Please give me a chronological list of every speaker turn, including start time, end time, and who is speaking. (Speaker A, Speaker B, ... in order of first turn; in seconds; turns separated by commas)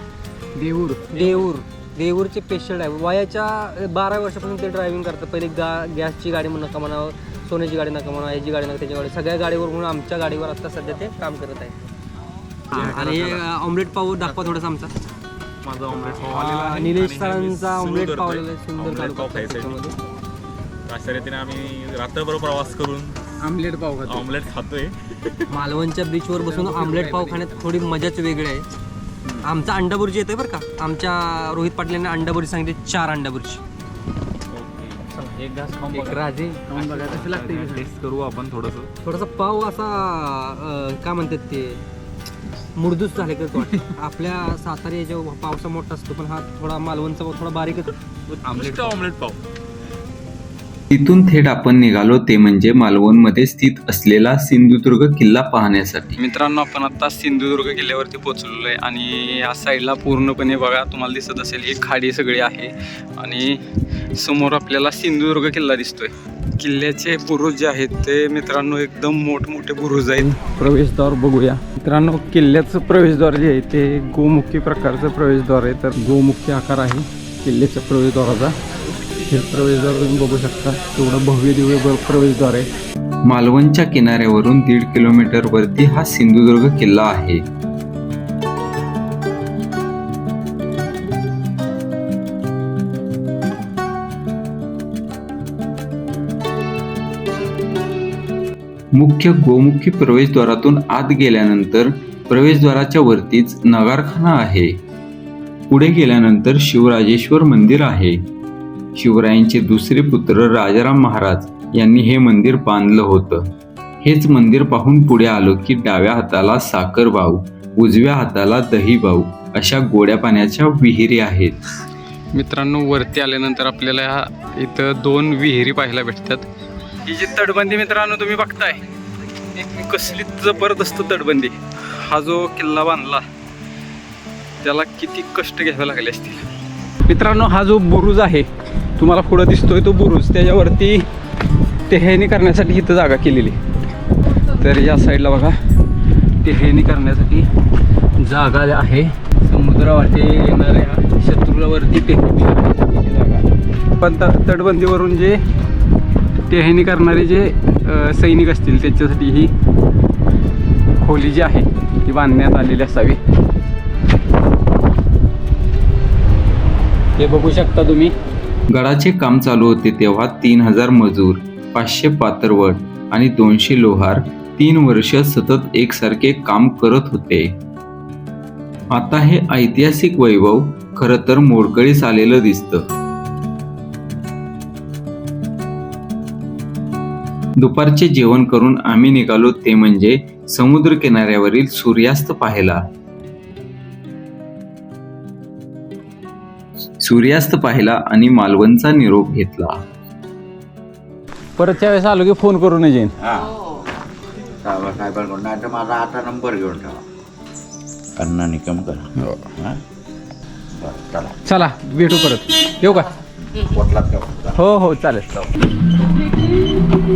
Speaker A: 0.6-1.5, Speaker B: 1.1-11.8, Speaker C: 12.7-13.4, Speaker B: 12.7-14.9, Speaker C: 15.6-20.0, Speaker B: 16.1-19.9, Speaker C: 20.9-23.2, Speaker A: 23.4-24.2, Speaker C: 24.1-25.4, Speaker B: 25.5-28.7, Speaker A: 26.5-27.7, Speaker B: 29.4-33.6, Speaker C: 34.5-35.1, Speaker A: 35.1-38.9, Speaker B: 35.9-37.8, Speaker C: 36.8-37.8, Speaker B: 39.0-41.8, Speaker B: 42.8-48.0, Speaker C: 48.4-49.4, Speaker A: 48.4-49.0, Speaker D: 50.9-56.2, Speaker A: 56.2-78.6, Speaker A: 79.2-82.7, Speaker D: 83.2-87.4, Speaker D: 99.0-104.8, Speaker D: 105.7-108.2, Speaker D: 109.0-113.5, Speaker D: 114.0-121.6, Speaker A: 122.3-126.5, Speaker A: 127.0-128.8, Speaker A: 129.5-133.3, Speaker A: 134.6-136.5, Speaker A: 137.1-141.1, Speaker A: 141.9-143.6, Speaker A: 144.5-145.6, Speaker A: 146.4-147.5, Speaker A: 148.2-155.4, Speaker A: 156.5-159.5, Speaker A: 161.0-163.2, Speaker A: 167.2-168.1, Speaker D: 168.7-177.6, Speaker D: 178.9-182.9, Speaker D: 187.6-192.8, Speaker D: 197.0-199.8, Speaker A: 201.6-203.2, Speaker E: 203.2-203.6, Speaker E: 204.6-207.1, Speaker E: 208.2-209.8, Speaker A: 209.2-209.5, Speaker E: 210.8-211.4, Speaker A: 211.4-213.1, Speaker E: 213.6-214.6, Speaker A: 214.6-215.5